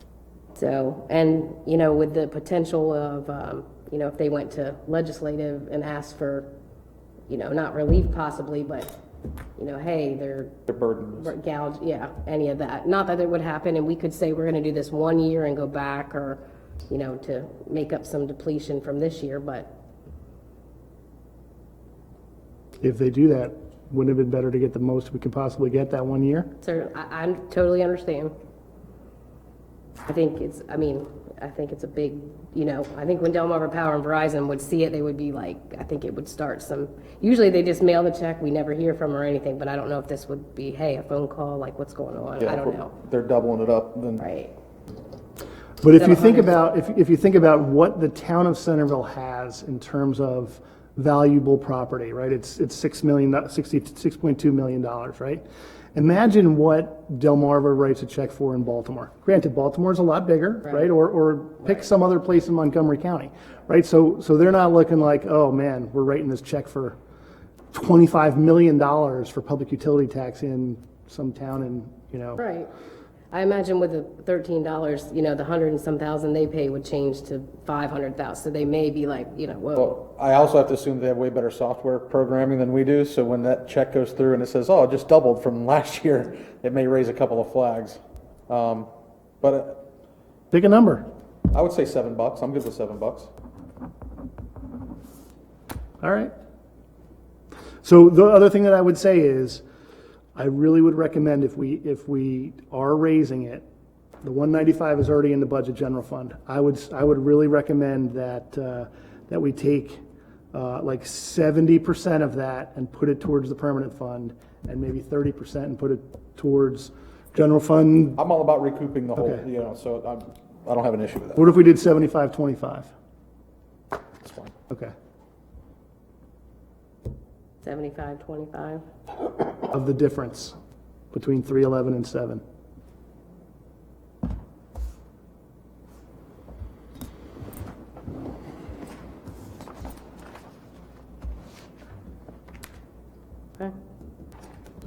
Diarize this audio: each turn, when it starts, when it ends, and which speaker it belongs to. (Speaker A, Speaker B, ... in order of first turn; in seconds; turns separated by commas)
Speaker A: 0.5-6.5, Speaker A: 7.3-8.9, Speaker A: 9.6-10.6, Speaker B: 10.7-11.3, Speaker A: 11.2-19.7, Speaker C: 22.8-26.5, Speaker A: 26.6-28.3, Speaker A: 30.1-42.9, Speaker B: 42.4-44.2, Speaker A: 44.2-44.5, Speaker C: 45.8-55.4, Speaker A: 45.9-46.5, Speaker C: 55.9-67.0, Speaker C: 67.7-72.4, Speaker A: 72.4-72.7, Speaker A: 73.3-80.0, Speaker B: 79.7-88.9, Speaker B: 89.4-89.8, Speaker C: 90.5-91.0, Speaker B: 91.5-93.3, Speaker C: 96.0-96.3, Speaker C: 97.8-99.6, Speaker C: 100.3-103.6, Speaker C: 104.2-110.0, Speaker C: 110.5-118.2, Speaker B: 118.2-121.4, Speaker C: 119.2-119.4, Speaker C: 121.3-122.9, Speaker B: 124.2-124.5, Speaker A: 127.6-128.8, Speaker C: 129.7-130.5, Speaker C: 131.1-132.4